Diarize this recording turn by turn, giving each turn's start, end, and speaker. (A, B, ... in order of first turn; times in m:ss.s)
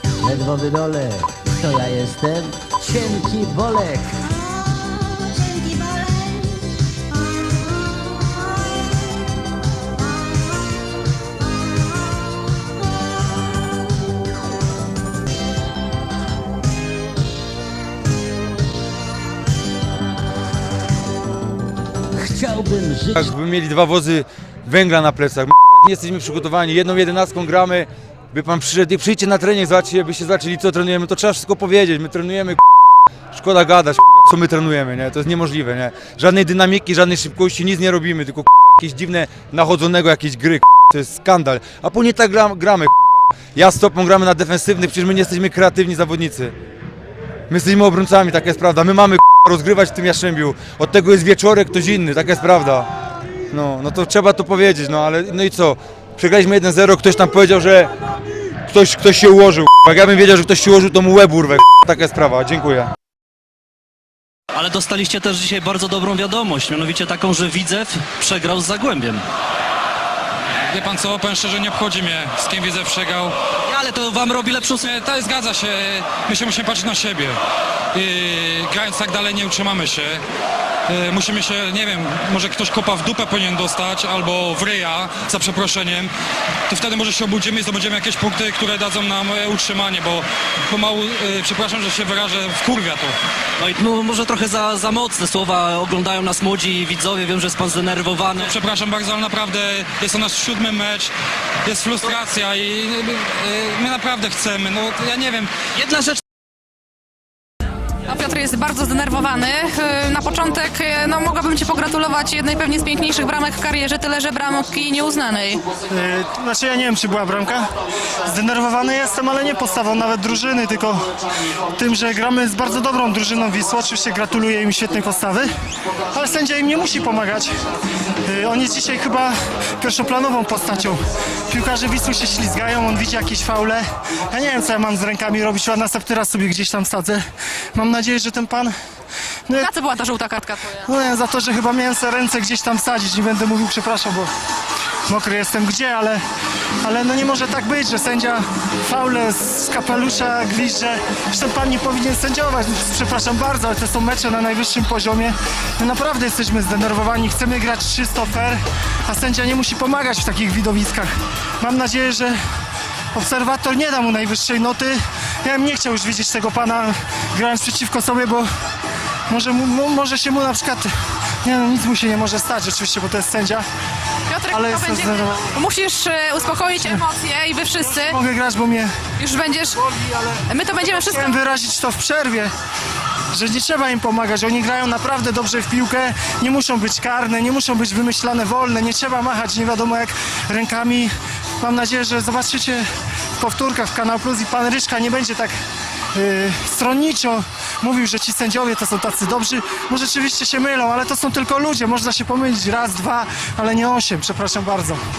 0:00.2-0:04.2 A
0:22.2-0:23.3 A
0:23.1-0:32.6 B
0:33.3-0:46.6 B
0:47.5-0:52.9 B
0:53.5-0:57.9 B
0:58.7-1:02.9 B
1:04.6-1:09.2 C
1:10.7-1:13.3 D
1:13.7-1:15.0 C
1:15.0-1:17.4 D
1:18.0-1:20.2 D
1:20.9-1:26.1 D
1:26.7-1:33.1 D
1:33.6-1:38.6 C
1:38.7-1:41.1 D
1:40.4-1:40.8 C
1:41.6-1:45.4 D
1:44.2-1:44.6 C
1:48.1-1:55.6 E
1:55.9-1:57.7 F
1:58.3-2:01.1 F
2:01.8-2:05.5 F
2:06.1-2:07.5 F
2:08.3-2:17.2 F
2:17.8-2:18.7 F
2:19.6-2:20.9 E
2:20.9-2:24.3 F
2:25.1-2:26.2 F
2:26.8-2:42.4 F
2:43.1-2:48.5 F
2:49.3-2:50.9 F
2:51.4-2:53.7 F
2:54.3-2:58.2 E
2:54.5-2:55.4 F
2:57.8-2:58.9 F
2:59.2-2:59.8 E
3:00.5-3:01.4 E
3:00.9-3:02.5 F
3:03.3-3:12.9 F
3:13.4-3:15.6 F
3:16.1-3:25.0 F